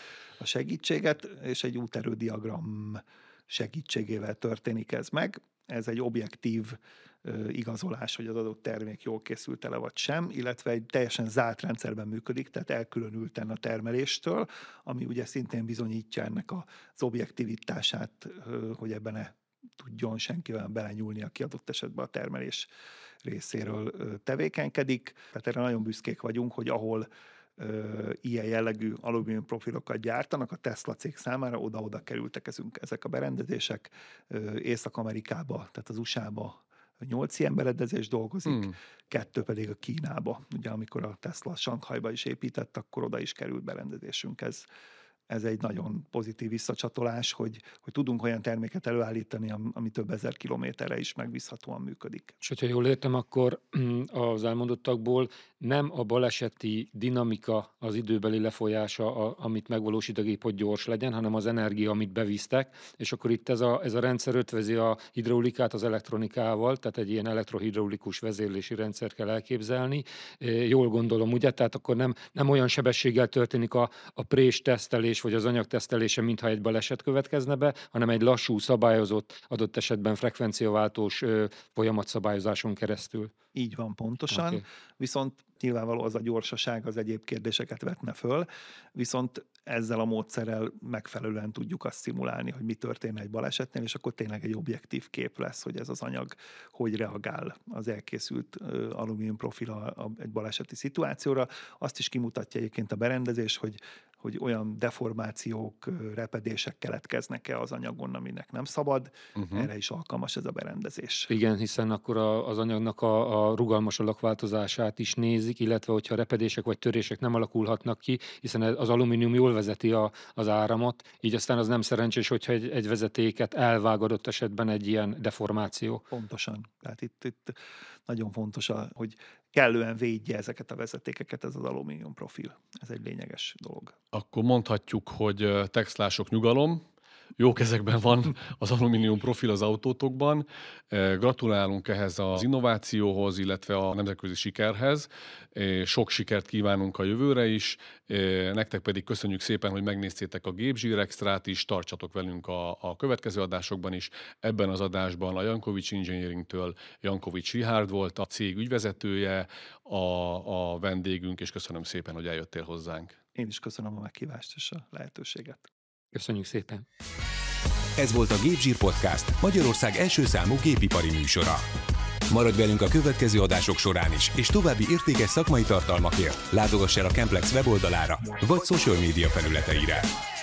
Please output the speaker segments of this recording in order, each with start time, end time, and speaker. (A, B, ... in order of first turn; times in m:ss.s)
0:00.4-0:22.7 A
0:23.2-0:44.6 A
0:45.3-0:52.4 A
0:52.4-1:23.3 B
1:23.5-1:51.3 A
1:24.3-1:24.6 B
1:49.4-1:49.7 C
1:51.3-2:06.0 B
2:06.1-2:14.0 A
2:14.1-2:16.8 C
2:17.4-2:43.2 C
2:43.3-2:45.7 A
2:46.1-2:46.8 B
2:48.0-2:51.6 D
2:52.3-3:00.1 D